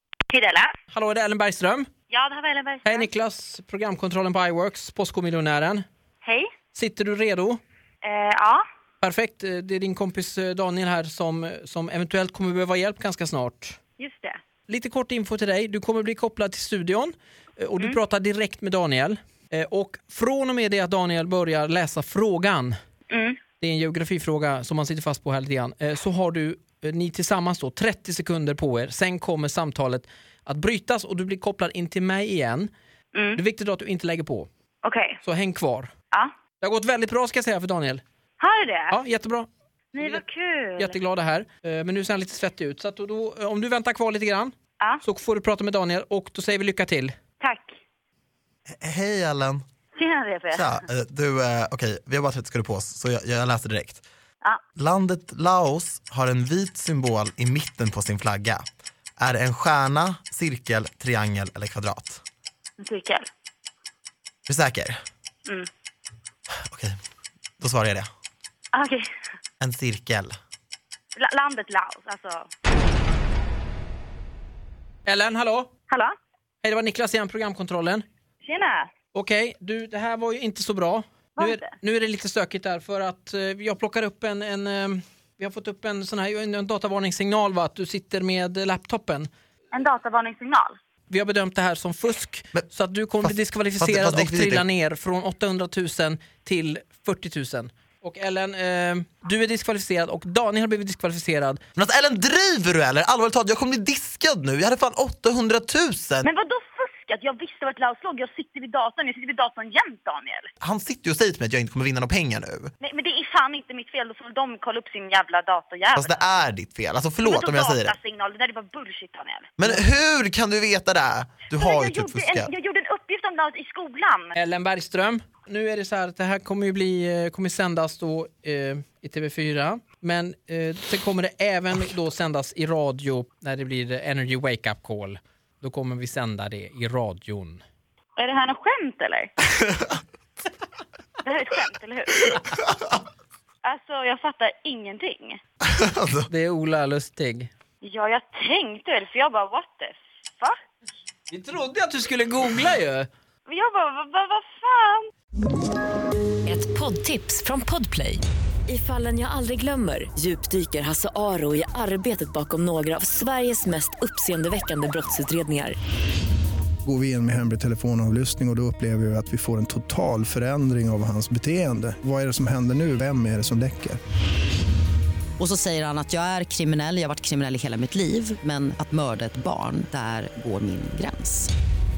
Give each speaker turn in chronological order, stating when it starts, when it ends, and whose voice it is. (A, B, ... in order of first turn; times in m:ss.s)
0:00.3-0:00.7 A
0:00.9-0:01.9 B
0:02.1-0:03.1 A
0:02.8-0:05.8 B
0:06.2-0:06.5 A
0:06.7-0:07.6 B
0:08.0-0:08.6 A
0:09.0-0:13.8 B
0:14.0-0:14.4 A
0:14.7-0:22.8 B
0:23.1-0:23.4 A
0:23.6-0:32.7 B
0:33.1-0:33.4 A
0:33.4-0:34.5 B
0:34.8-0:35.2 A
0:35.2-0:35.9 B
0:36.6-0:38.0 B
0:38.4-0:39.0 A
0:38.9-0:39.5 B
0:39.9-0:41.0 A
0:40.8-0:47.1 B
0:47.4-0:47.8 A
0:48.7-0:49.6 C
0:50.0-0:50.8 A
0:50.5-0:54.0 C
0:54.8-0:58.6 C
0:59.2-1:02.2 C
1:02.8-1:03.3 A
1:04.5-1:05.0 C
1:06.7-1:06.9 C
1:07.6-1:08.0 C
1:08.7-1:09.0 A
1:09.6-1:10.3 C
1:11.2-1:12.5 A
1:15.0-1:15.7 B
1:15.9-1:16.1 A
1:16.6-1:18.0 B
1:18.4-1:18.9 A
1:19.1-1:29.3 B
1:21.4-1:21.7 A
1:29.7-1:30.8 A
1:31.1-1:41.6 B
1:33.2-1:34.6 C
1:41.8-1:46.3 C
1:46.2-1:50.5 A
1:50.6-1:52.7 C
1:52.8-1:56.4 A
1:56.0-1:58.0 C
1:57.2-1:59.6 A
1:59.6-2:02.5 C
2:01.6-2:04.4 A
2:04.3-2:17.6 B
2:18.2-2:19.3 A
2:21.2-2:22.4 A
2:23.6-2:25.4 A
2:25.7-2:26.3 C
2:26.3-2:27.5 B
2:27.8-2:30.6 A
2:31.3-2:33.1 B
2:33.5-2:35.1 A
2:36.4-2:45.8 D
2:46.8-2:54.0 E
2:55.4-3:01.5 F